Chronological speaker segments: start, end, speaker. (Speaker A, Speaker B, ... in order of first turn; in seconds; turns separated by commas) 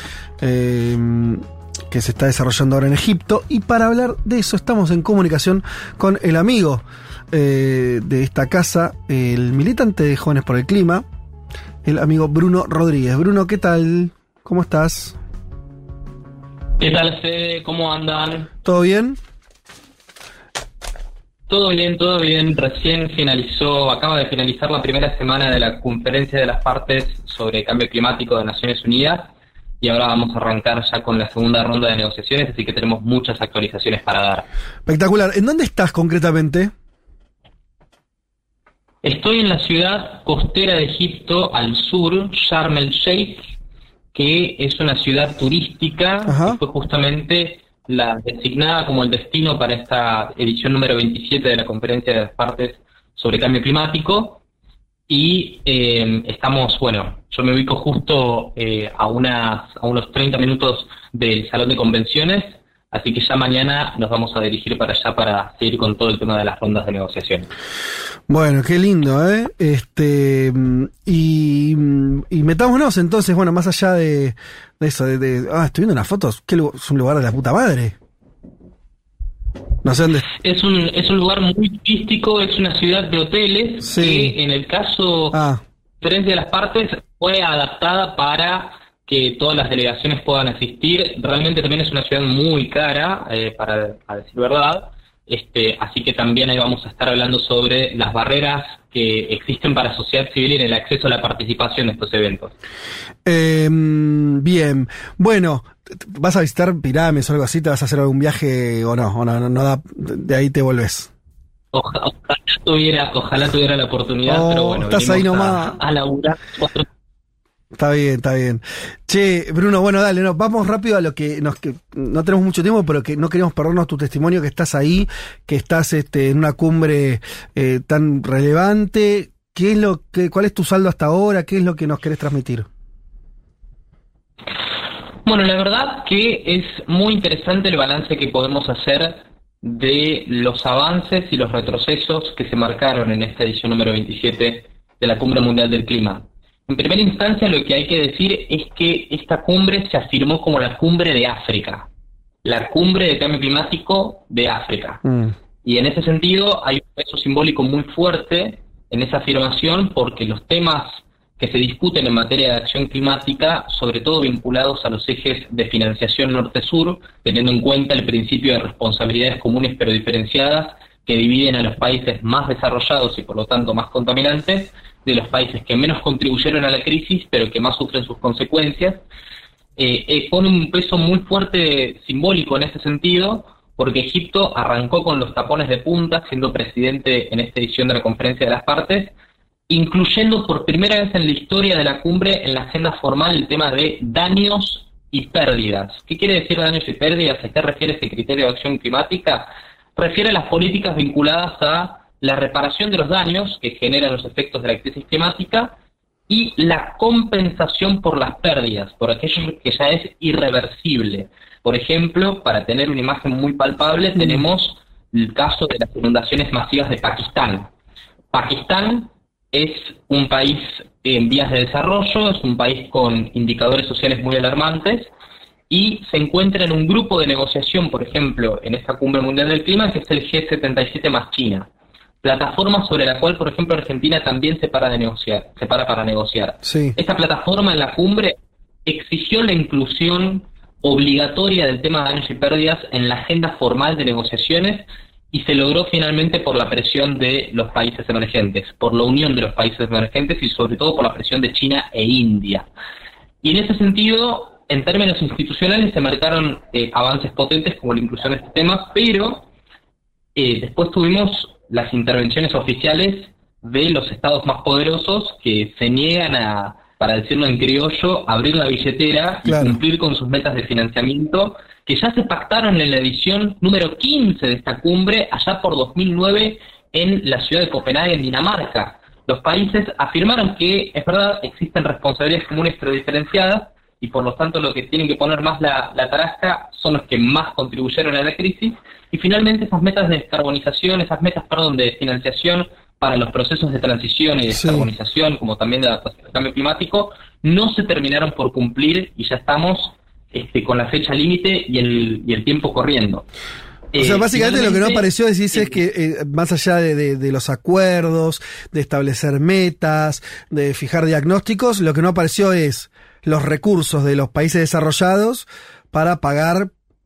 Speaker A: 0.4-11.0, Speaker A: 11.8-15.2, Speaker B: 16.8-18.5, Speaker A: 18.6-19.2, Speaker B: 21.5-34.5, Speaker A: 34.9-36.7, Speaker B: 39.0-43.5, Speaker B: 44.1-54.4, Speaker A: 46.3-46.6, Speaker B: 55.1-67.5, Speaker A: 68.3-77.9, Speaker A: 79.8-80.2, Speaker B: 80.2-85.4, Speaker A: 83.8-84.3, Speaker A: 85.3-85.6, Speaker B: 86.0-102.5, Speaker A: 103.2-111.1, Speaker B: 111.7-116.9, Speaker A: 114.2-115.8, Speaker A: 117.7-132.7, Speaker B: 135.2-151.9, Speaker B: 152.4-155.0, Speaker A: 155.0-155.3, Speaker B: 155.6-179.0, Speaker B: 179.8-189.1, Speaker B: 189.7-205.7, Speaker B: 206.3-217.7, Speaker B: 218.3-225.1, Speaker B: 225.7-231.7, Speaker B: 232.2-252.7, Speaker A: 236.6-237.0, Speaker B: 253.4-259.5, Speaker B: 260.3-303.2, Speaker A: 269.4-269.8, Speaker A: 294.5-294.9, Speaker B: 303.9-305.8, Speaker A: 303.9-316.7